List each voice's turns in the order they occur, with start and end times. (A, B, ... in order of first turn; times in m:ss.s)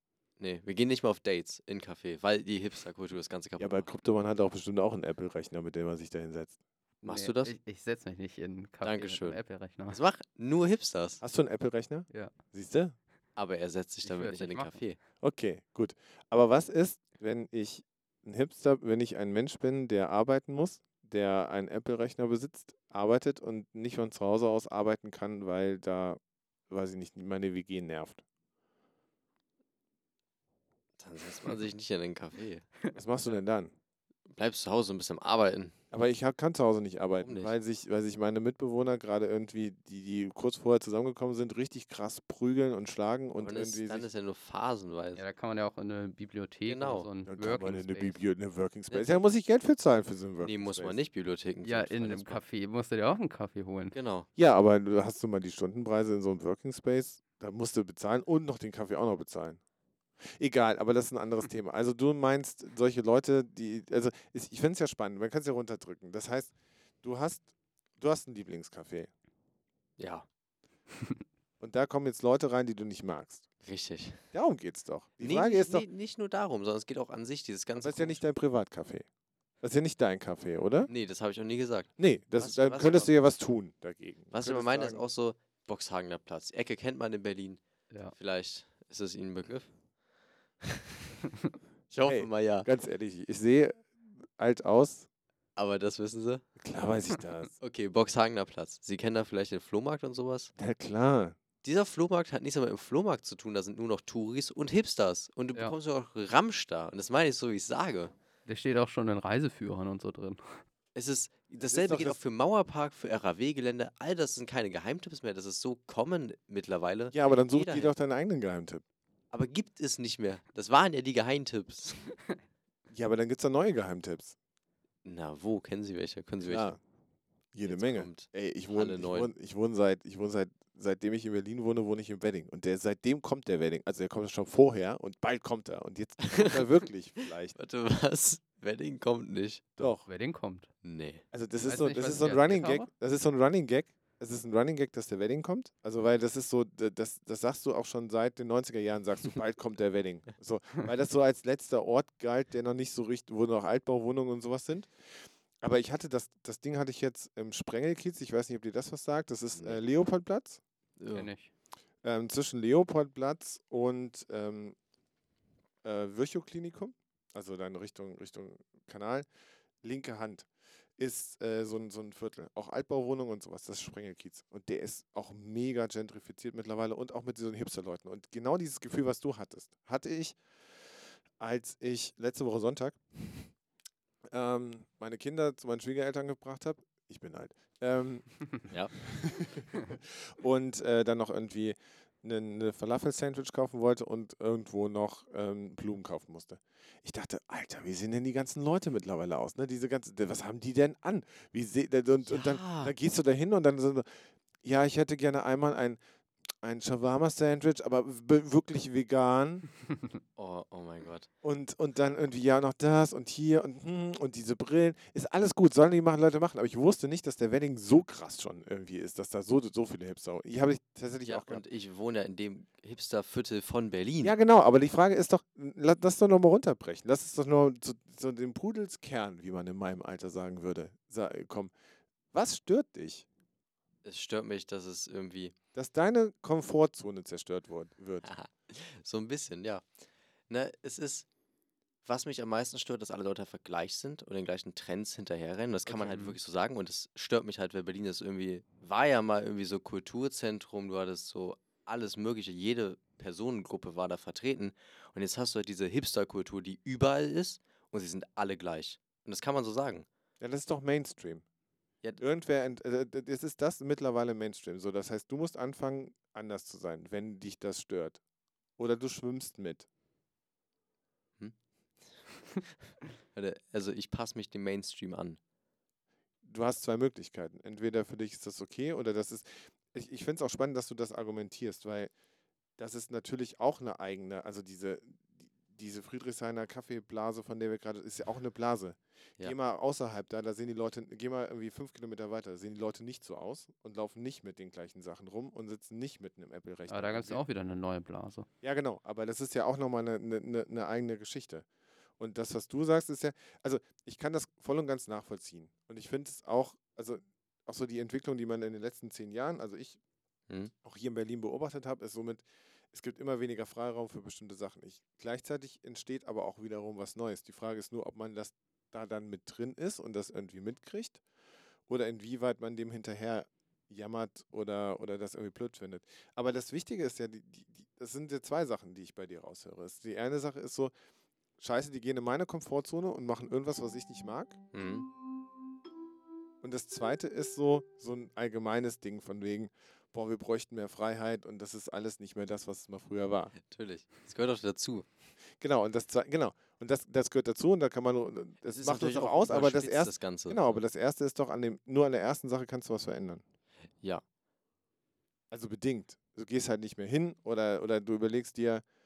0:00.4-0:03.9 A
0:03.6-0:06.6 B
0:07.0-0:07.6 A
0:07.0-0:10.0 C
0:08.8-0:11.2 A
0:11.2-0:13.0 B
0:13.4-0:15.0 A
0:14.0-0:14.8 C
0:15.2-0:28.2 B
0:31.0-0:32.7 A
0:32.9-0:33.7 B
0:34.3-0:35.7 A
0:35.9-0:44.1 B
0:37.2-0:37.5 A
0:43.4-0:45.2 A
0:45.1-0:48.2 C
0:46.6-0:47.1 A
0:47.2-0:51.0 B
0:48.9-0:49.2 A
0:50.4-0:52.4 A
0:51.6-0:54.0 C
0:53.9-0:54.3 A
0:54.4-0:59.6 B
1:00.4-1:09.1 B
1:10.0-1:10.2 A
1:11.6-1:13.4 B
1:13.6-1:14.2 A
1:14.3-1:15.9 B
1:15.2-1:18.2 A
1:17.8-1:19.0 B
1:19.6-1:20.9 B
1:20.9-1:23.1 A
1:22.0-1:25.0 B
1:24.3-1:29.7 A
1:31.9-1:32.7 A
1:32.0-1:35.1 B
1:35.6-1:36.4 A
1:36.6-1:37.5 B
1:37.6-1:40.5 A
1:40.6-1:41.4 B
1:41.6-1:48.1 A
1:48.4-1:50.4 C
1:50.9-1:57.9 A
1:51.6-1:52.2 B
1:57.1-1:58.8 B
1:59.3-2:02.1 A
2:02.9-2:04.4 B
2:05.0-2:06.7 A
2:06.4-2:06.8 B
2:07.5-2:17.6 B
2:07.6-2:09.3 A
2:16.3-2:16.6 A
2:17.5-2:19.6 A
2:19.8-2:20.1 B
2:19.8-2:20.7 C
2:20.8-2:21.2 A
2:21.3-2:34.9 B
2:21.6-2:22.9 C
2:35.6-2:40.6 B
2:39.5-2:39.8 A
2:41.0-2:41.3 A
2:41.1-2:41.5 C
2:42.0-2:44.7 B
2:45.8-2:49.3 B
2:49.8-3:00.4 B
3:01.4-3:03.5 B
3:04.3-3:24.1 B
3:22.3-3:22.9 A
3:24.6-3:26.0 B
3:26.6-3:29.6 B
3:30.4-3:31.3 A
3:31.4-3:41.6 B
3:41.2-3:44.3 A
3:44.2-3:51.7 B
3:52.3-3:53.3 B
3:54.0-3:55.5 A
3:55.7-3:58.3 B
3:58.2-3:59.8 A
4:00.5-4:01.3 A
4:02.0-4:20.0 A
4:05.9-4:06.4 C
4:20.4-4:21.4 B
4:22.2-4:28.2 B
4:28.8-4:29.9 B
4:33.3-4:35.4 A
4:36.4-4:42.1 B
4:42.8-4:57.4 B
4:56.9-4:58.5 C
4:58.6-5:01.6 B
5:02.2-5:10.0 B
5:10.8-5:21.2 B
5:21.9-5:30.9 B
5:31.6-5:34.6 B
5:34.7-5:35.1 A
5:36.6-5:43.5 B
5:43.6-5:45.0 A
5:45.6-5:53.4 B
5:48.6-5:50.8 A
5:55.5-5:58.8 B